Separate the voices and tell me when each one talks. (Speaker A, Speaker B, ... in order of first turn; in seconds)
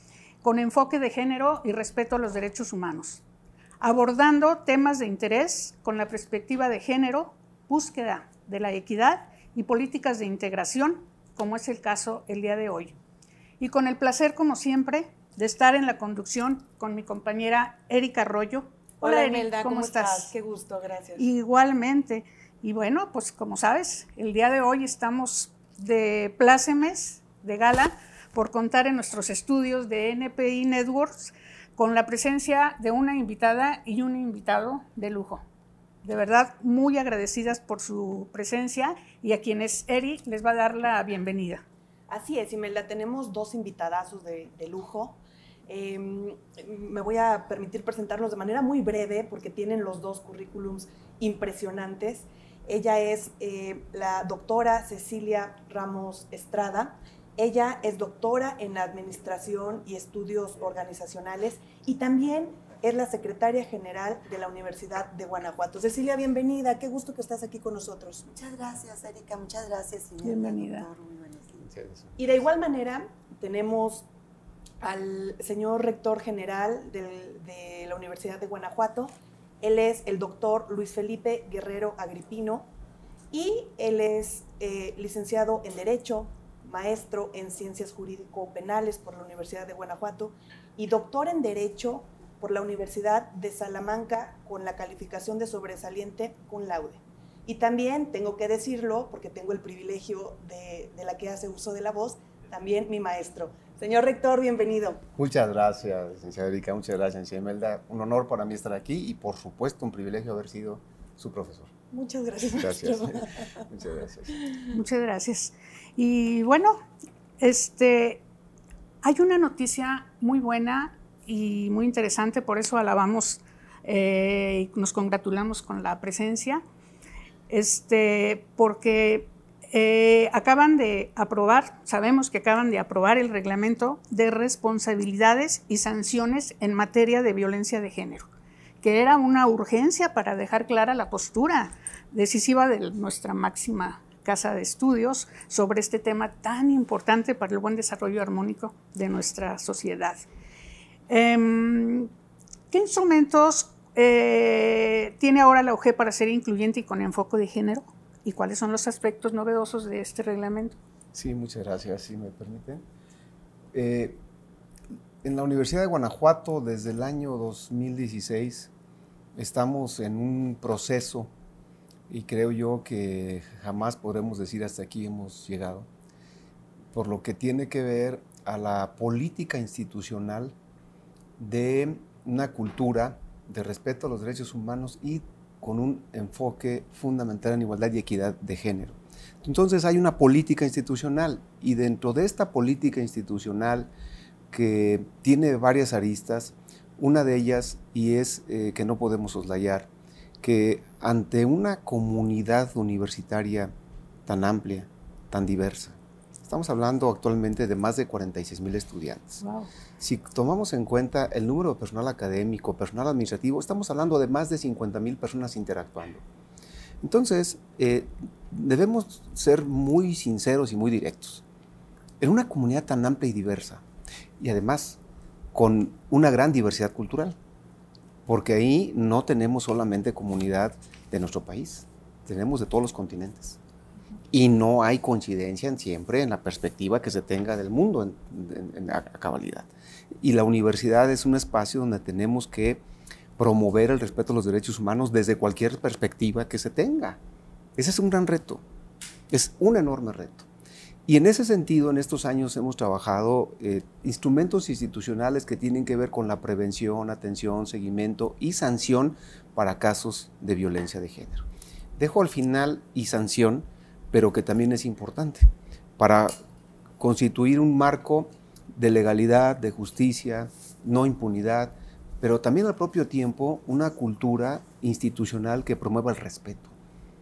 Speaker A: 0.4-3.2, 3.8-13.0, 13.6-20.3, 21.2-35.4, 36.0-41.6, 70.2-70.9, 114.7-116.8, 117.4-118.2, 119.0-126.6, 127.5-138.3, 138.8-150.3, 151.1-152.1, 152.7-160.8, 209.4-209.7
Speaker B: 19.0-21.2, 42.1-68.3, 72.2-74.1, 74.8-82.7, 83.3-105.0, 111.9-113.5, 114.3-114.7
Speaker C: 68.3-71.7
Speaker D: 71.7-72.1, 105.2-111.7, 112.5-114.4, 161.1-162.8, 163.7-164.2, 165.2-168.7, 169.3-171.3, 172.1-175.9, 176.9-180.6, 181.4-193.9, 194.5-199.9, 200.4-203.7, 204.3-209.4, 210.0-216.2, 217.0-221.4, 222.2-223.8, 224.4-225.0, 225.5-227.4, 228.3-233.6, 234.3-239.7, 240.2-242.8, 243.4-247.2, 247.8-248.6, 249.3-250.5, 251.1-261.4, 262.0-266.3, 267.0-276.7